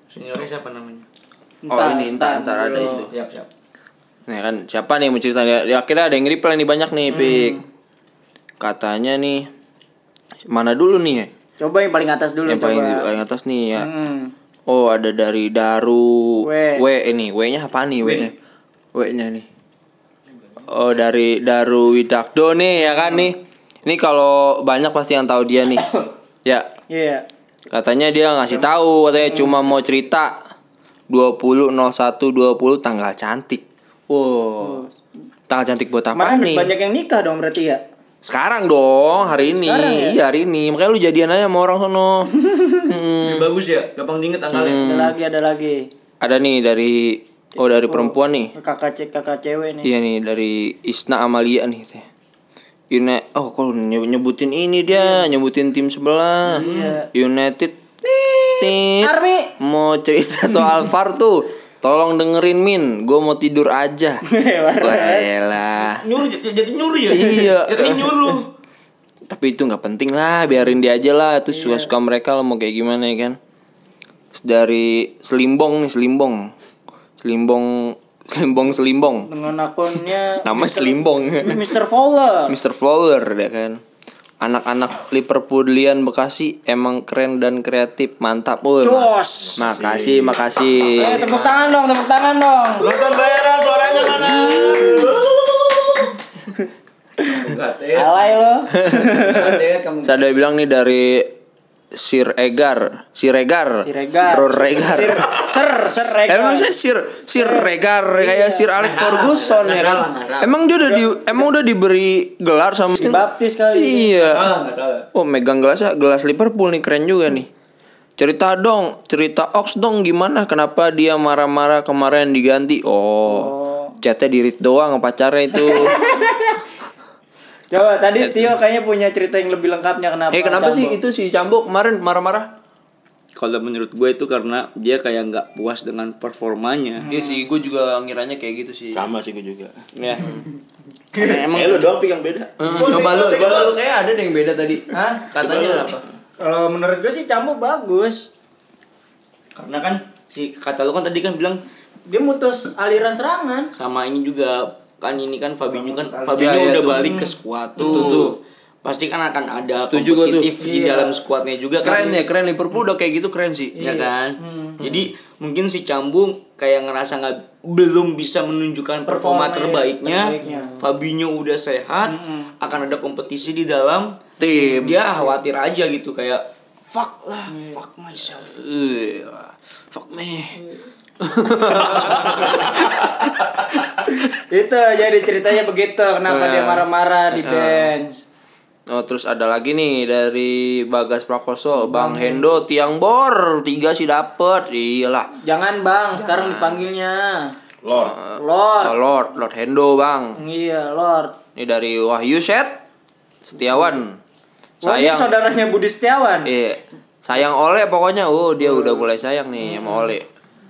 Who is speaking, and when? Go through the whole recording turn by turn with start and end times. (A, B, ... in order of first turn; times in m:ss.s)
0:00.1-0:01.0 A
0:01.6-0:03.0 B
0:01.7-0:03.1 C
0:02.8-0:03.5 A
0:04.3-0:07.6 C
0:07.2-0:07.6 B
0:08.6-0:09.5 C
0:10.5-0:11.3 C
0:11.6-0:13.1 B
0:12.4-0:13.9 C
0:13.8-0:14.3 B
0:14.7-0:18.4 C
0:16.4-0:16.8 B
0:18.9-0:19.4 C
0:20.7-0:25.9 C
0:22.8-0:23.3 B
0:26.9-0:27.2 B
0:27.7-0:30.4 C
0:29.3-0:29.6 B
0:31.1-0:34.8 C
0:34.6-0:34.9 B
0:35.5-0:36.7 C
0:36.1-0:37.8 B
0:38.2-0:43.5 C
0:39.3-0:40.2 B
0:42.4-0:42.8 B
0:43.2-0:44.9 A
0:44.5-0:45.1 C
0:44.5-0:45.9 B
0:46.2-0:48.5 C
0:47.9-0:49.9 B
0:49.8-0:52.0 C
0:52.9-1:04.2 C
0:54.9-0:55.3 B
0:56.5-0:57.0 A
0:56.5-0:57.1 B
0:59.0-0:59.5 B
1:04.2-1:05.3 B
1:04.8-1:06.0 C
1:05.9-1:08.5 A
1:07.1-1:08.4 C
1:09.3-1:13.4 C
1:11.5-1:11.9 B
1:14.3-1:16.5 C
1:17.2-1:19.3 C
1:19.3-1:22.6 B
1:20.3-1:21.7 C
1:22.5-1:23.8 C
1:24.4-1:31.2 C
1:28.8-1:29.6 B
1:29.6-1:31.1 D
1:31.0-1:32.9 B
1:31.1-1:31.6 A
1:32.8-1:35.4 D
1:33.9-1:34.3 A
1:37.2-1:38.4 A
1:37.9-1:39.4 B
1:38.8-1:39.1 C
1:39.0-1:40.2 A
1:40.0-1:41.3 C
1:41.9-1:45.4 C
1:43.8-1:46.7 B
1:45.9-1:54.5 C
1:47.3-1:48.7 B
1:48.8-1:51.1 A
1:53.0-1:54.3 B
1:54.3-1:55.1 A
1:55.1-1:57.5 C
1:58.2-2:06.0 C
2:03.3-2:04.0 B
2:05.5-2:06.5 B
2:07.7-2:11.0 B
2:10.3-2:12.5 C
2:13.4-2:17.0 A
2:17.0-2:17.4 B
2:17.1-2:19.0 C
2:18.9-2:19.8 D
2:20.0-2:20.4 A
2:21.1-2:21.9 A
2:21.2-2:23.8 D
2:22.6-2:26.0 C
2:24.9-2:25.3 B
2:25.4-2:26.0 D
2:26.4-2:28.3 B
2:29.5-2:31.6 A
2:32.1-2:33.7 B
2:33.8-2:42.2 A
2:36.3-2:37.3 C
2:36.8-2:38.2 B
2:37.8-2:38.4 C
2:39.9-2:40.5 C
2:40.6-2:41.2 B
2:41.8-2:43.8 C
2:43.8-2:44.8 B
2:43.8-2:58.6 A
2:44.8-2:45.1 C
2:49.0-2:50.8 B
2:50.5-2:50.8 C
2:52.0-2:52.5 B
2:54.4-2:55.0 C
2:54.6-2:54.9 B
2:57.5-2:57.8 B
2:58.5-3:00.6 C
3:01.2-3:03.3 C
3:01.8-3:02.3 A
3:04.4-3:08.2 B
3:06.3-3:07.9 C
3:08.9-3:15.3 C
3:11.8-3:12.6 B
3:15.4-3:17.5 B
3:16.2-3:16.8 C
3:17.8-3:18.2 D
3:18.0-3:20.4 C
3:18.4-3:19.0 B
3:20.4-3:21.4 B
3:21.6-3:22.8 C
3:23.4-3:24.2 C
3:24.8-3:26.5 B
3:24.8-3:25.4 C
3:26.4-3:30.2 C
3:28.6-3:29.1 B
3:29.6-3:30.1 B